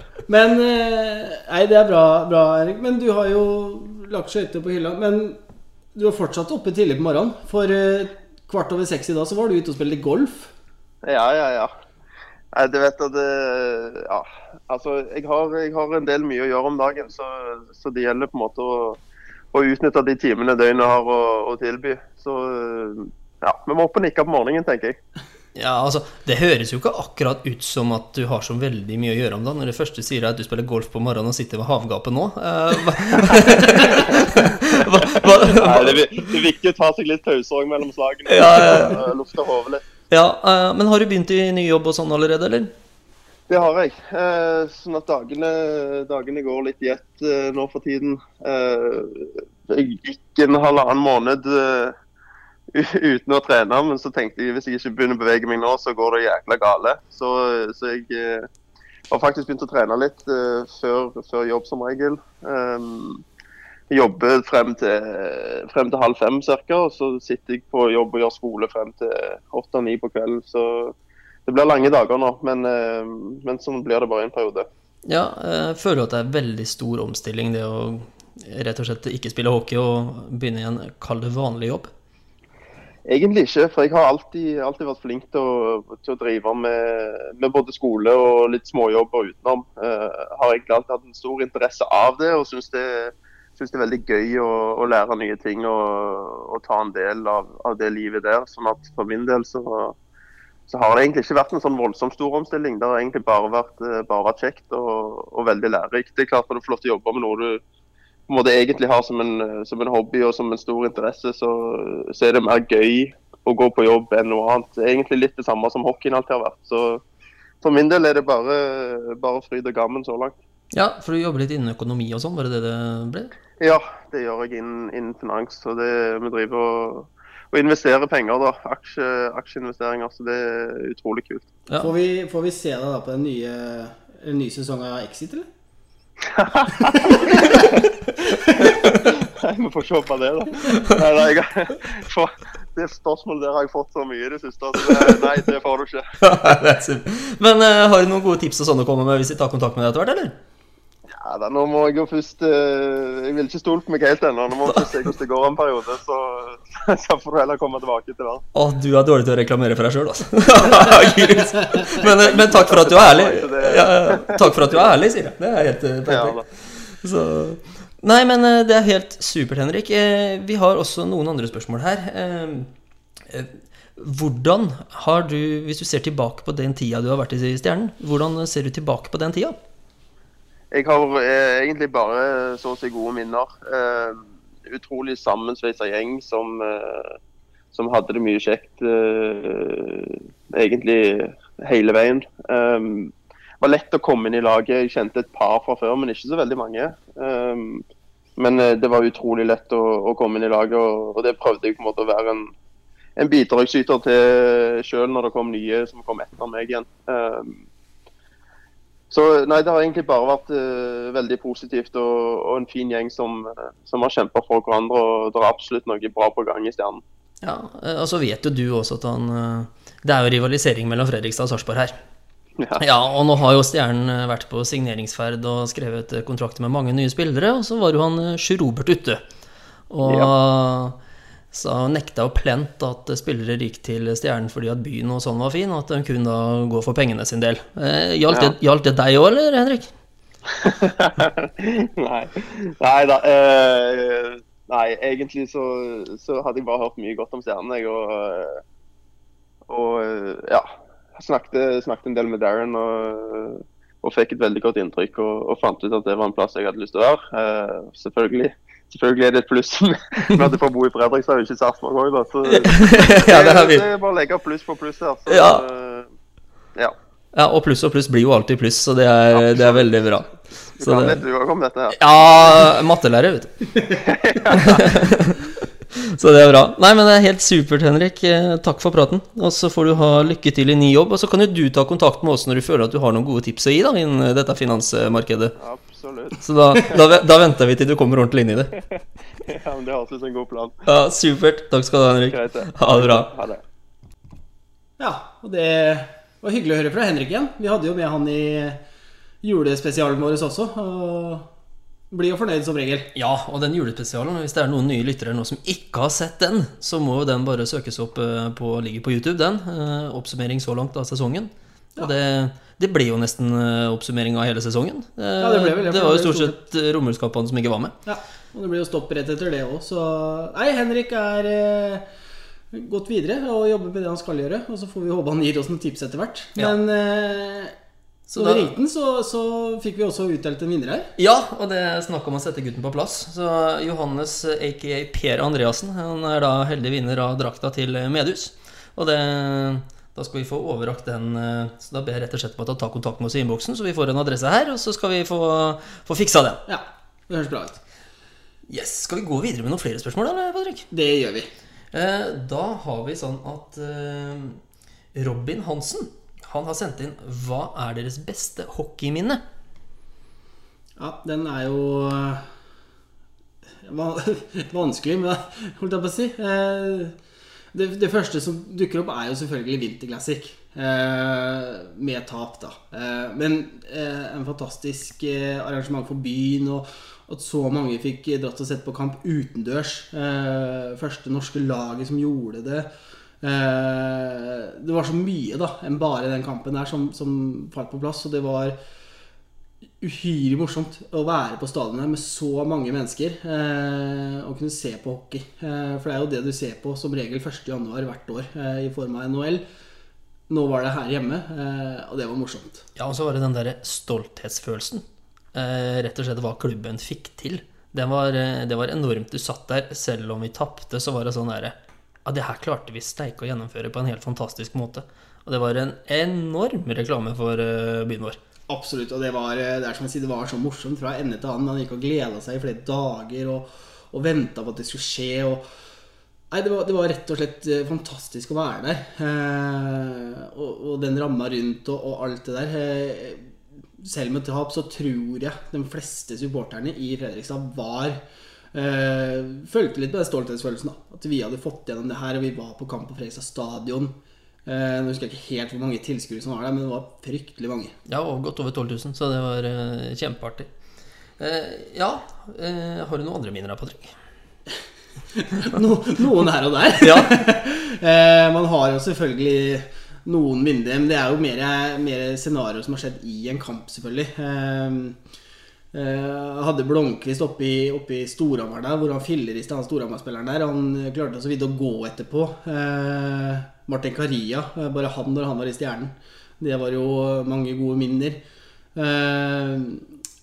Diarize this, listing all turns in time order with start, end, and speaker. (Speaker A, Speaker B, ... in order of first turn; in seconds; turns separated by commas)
Speaker A: 0.3-5.4, Speaker A: 5.9-10.5, Speaker B: 11.0-11.7, Speaker B: 12.5-19.0, Speaker B: 19.5-25.0, Speaker C: 25.5-36.4, Speaker B: 35.1-39.8, Speaker C: 38.3-39.0, Speaker C: 40.1-42.7, Speaker B: 43.5-52.0, Speaker B: 52.7-58.5, Speaker B: 59.1-63.2, Speaker B: 63.9-71.0, Speaker B: 71.5-74.7, Speaker C: 75.0-81.9, Speaker B: 83.0-100.0, Speaker B: 100.7-107.6, Speaker B: 108.3-117.0, Speaker B: 117.6-120.3, Speaker C: 120.7-123.3, Speaker B: 123.6-131.5, Speaker A: 131.8-135.5, Speaker B: 136.2-146.1, Speaker C: 146.2-150.4, Speaker B: 151.1-158.4, Speaker C: 158.5-172.7, Speaker B: 161.8-164.9, Speaker B: 166.1-166.4, Speaker C: 173.2-179.6, Speaker B: 180.7-187.2, Speaker B: 187.7-197.8, Speaker B: 198.4-202.5, Speaker B: 203.2-207.6, Speaker B: 209.1-217.0, Speaker C: 217.4-221.9, Speaker C: 222.8-229.2, Speaker C: 229.9-231.0, Speaker B: 230.0-230.3, Speaker C: 231.5-239.9, Speaker B: 238.3-238.5, Speaker B: 240.6-248.6, Speaker B: 249.7-266.1, Speaker C: 262.5-263.8, Speaker C: 265.3-265.6, Speaker C: 267.3-271.2, Speaker B: 269.3-269.9, Speaker B: 270.8-272.7, Speaker C: 271.9-273.7, Speaker B: 274.0-275.0, Speaker C: 274.5-285.5, Speaker B: 285.6-286.9, Speaker C: 286.4-288.8, Speaker B: 288.9-290.8, Speaker C: 290.9-293.3, Speaker B: 292.3-293.6, Speaker A: 295.0-298.8, Speaker A: 299.4-301.5, Speaker A: 302.1-303.1, Speaker C: 303.1-317.9, Speaker A: 315.4-316.6, Speaker A: 318.1-322.1, Speaker A: 322.7-327.7, Speaker C: 328.3-328.7, Speaker A: 328.4-331.1, Speaker C: 331.2-346.6, Speaker A: 346.7-347.8, Speaker C: 348.7-350.9, Speaker A: 350.9-351.5, Speaker C: 351.9-354.6, Speaker C: 355.1-359.4, Speaker A: 361.0-362.5, Speaker A: 363.8-367.1, Speaker A: 367.7-382.9, Speaker A: 383.4-388.8, Speaker A: 390.0-399.6, Speaker A: 400.5-402.9, Speaker C: 403.0-405.0, Speaker C: 405.5-418.4, Speaker A: 418.7-425.6, Speaker A: 426.5-438.2, Speaker A: 438.7-444.1, Speaker A: 444.6-448.0, Speaker C: 448.1-450.7, Speaker C: 451.4-454.1, Speaker A: 455.3-465.2, Speaker C: 457.0-457.4, Speaker A: 465.9-478.4, Speaker A: 478.9-480.0